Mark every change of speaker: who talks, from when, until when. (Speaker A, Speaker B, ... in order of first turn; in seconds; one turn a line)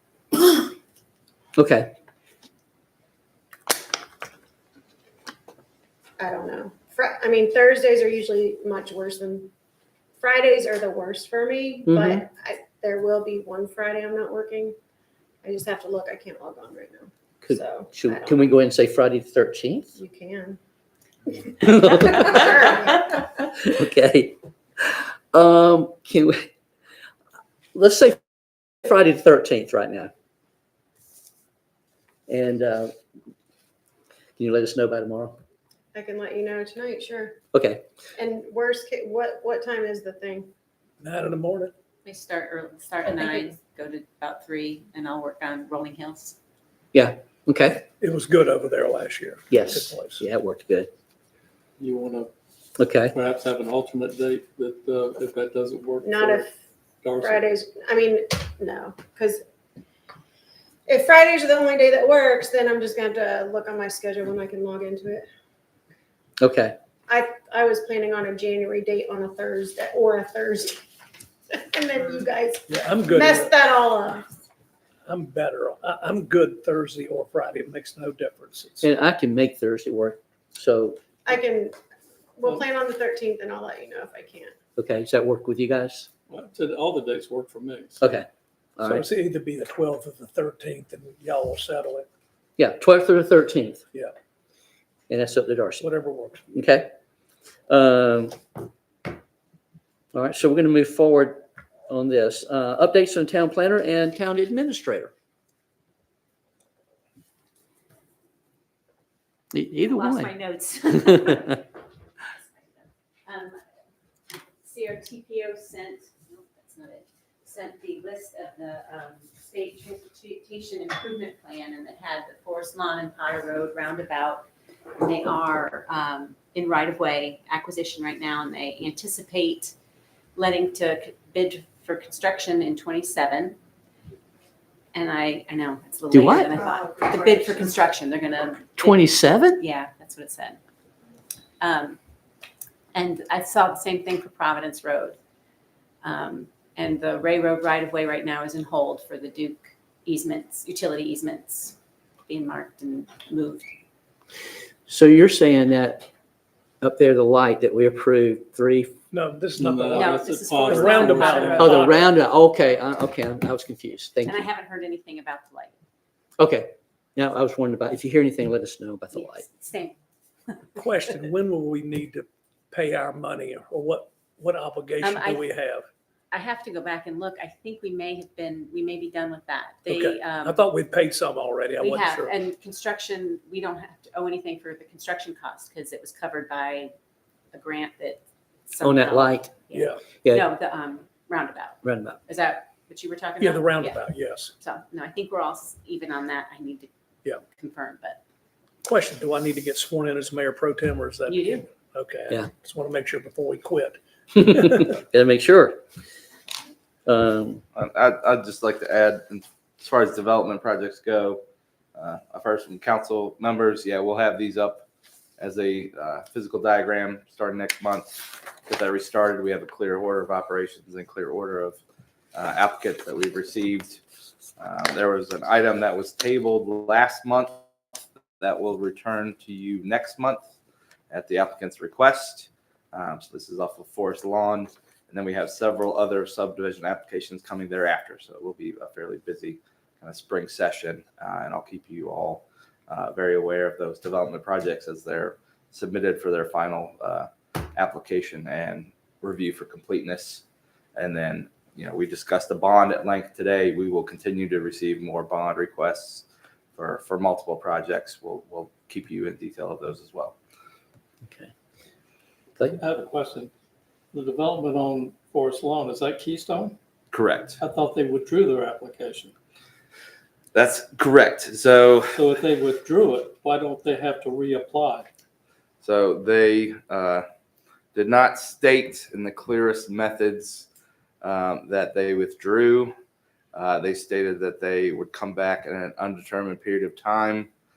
Speaker A: 1.6-1.9
Speaker B: 6.2-9.5
Speaker B: 10.2-14.8
Speaker A: 11.8-12.2
Speaker B: 15.4-18.4
Speaker A: 17.4-19.9
Speaker B: 20.0-20.6
Speaker B: 21.3-23.2
Speaker A: 21.6-26.5
Speaker A: 27.8-28.2
Speaker A: 28.8-30.1
Speaker A: 32.3-32.9
Speaker A: 34.4-35.4
Speaker B: 35.9-37.4
Speaker A: 37.5-37.8
Speaker B: 38.2-40.5
Speaker C: 41.0-41.7
Speaker D: 42.0-46.4
Speaker A: 46.9-47.9
Speaker C: 47.9-50.2
Speaker A: 49.5-50.9
Speaker E: 51.8-52.3
Speaker A: 52.8-53.2
Speaker E: 53.1-56.5
Speaker B: 56.0-56.5
Speaker E: 57.0-57.5
Speaker B: 57.2-59.4
Speaker B: 60.9-65.3
Speaker A: 66.4-66.8
Speaker B: 67.1-70.8
Speaker B: 71.5-74.3
Speaker C: 72.7-73.5
Speaker C: 75.1-78.9
Speaker A: 78.8-81.0
Speaker B: 81.3-81.8
Speaker B: 82.4-84.5
Speaker A: 84.8-86.1
Speaker E: 86.3-88.1
Speaker A: 88.0-88.3
Speaker A: 88.8-89.1
Speaker C: 88.8-92.1
Speaker A: 92.6-93.8
Speaker A: 95.1-95.9
Speaker C: 95.8-96.5
Speaker A: 96.5-96.9
Speaker A: 97.7-98.4
Speaker A: 100.1-105.1
Speaker A: 109.5-110.3
Speaker D: 109.9-111.7
Speaker A: 111.1-111.5
Speaker D: 112.3-113.6
Speaker D: 114.6-129.7
Speaker D: 130.3-133.6
Speaker D: 134.9-140.6
Speaker A: 136.1-136.5
Speaker A: 138.8-139.6
Speaker D: 141.6-142.0
Speaker D: 142.9-145.2
Speaker D: 146.0-151.8
Speaker D: 152.3-153.7
Speaker A: 154.9-156.1
Speaker A: 156.8-159.0
Speaker C: 159.1-161.7
Speaker E: 159.6-162.0
Speaker D: 159.9-162.1
Speaker A: 161.6-164.4
Speaker D: 164.2-165.7
Speaker A: 166.4-169.4
Speaker D: 169.1-170.0
Speaker C: 170.8-175.9
Speaker D: 175.0-175.4
Speaker D: 176.3-180.6
Speaker C: 179.9-182.3
Speaker D: 181.8-186.9
Speaker D: 187.5-194.0
Speaker A: 188.8-190.5
Speaker C: 189.7-190.1
Speaker A: 191.8-192.2
Speaker C: 193.4-194.5
Speaker D: 194.6-196.9
Speaker D: 197.5-198.2
Speaker C: 198.8-204.9
Speaker D: 201.3-201.7
Speaker A: 204.4-205.8
Speaker A: 207.1-207.6
Speaker F: 207.8-211.4
Speaker F: 212.0-214.8
Speaker F: 215.4-221.8
Speaker F: 222.3-224.0
Speaker F: 224.6-227.6
Speaker F: 228.4-230.4
Speaker F: 231.1-250.4
Speaker F: 251.0-256.2
Speaker F: 256.8-260.4
Speaker E: 262.8-263.5
Speaker E: 264.1-266.8
Speaker F: 267.1-267.6
Speaker E: 267.6-269.3
Speaker F: 270.5-272.2
Speaker E: 272.2-275.1
Speaker F: 275.8-277.2
Speaker F: 277.9-280.7
Speaker F: 281.2-282.9
Speaker F: 283.5-287.5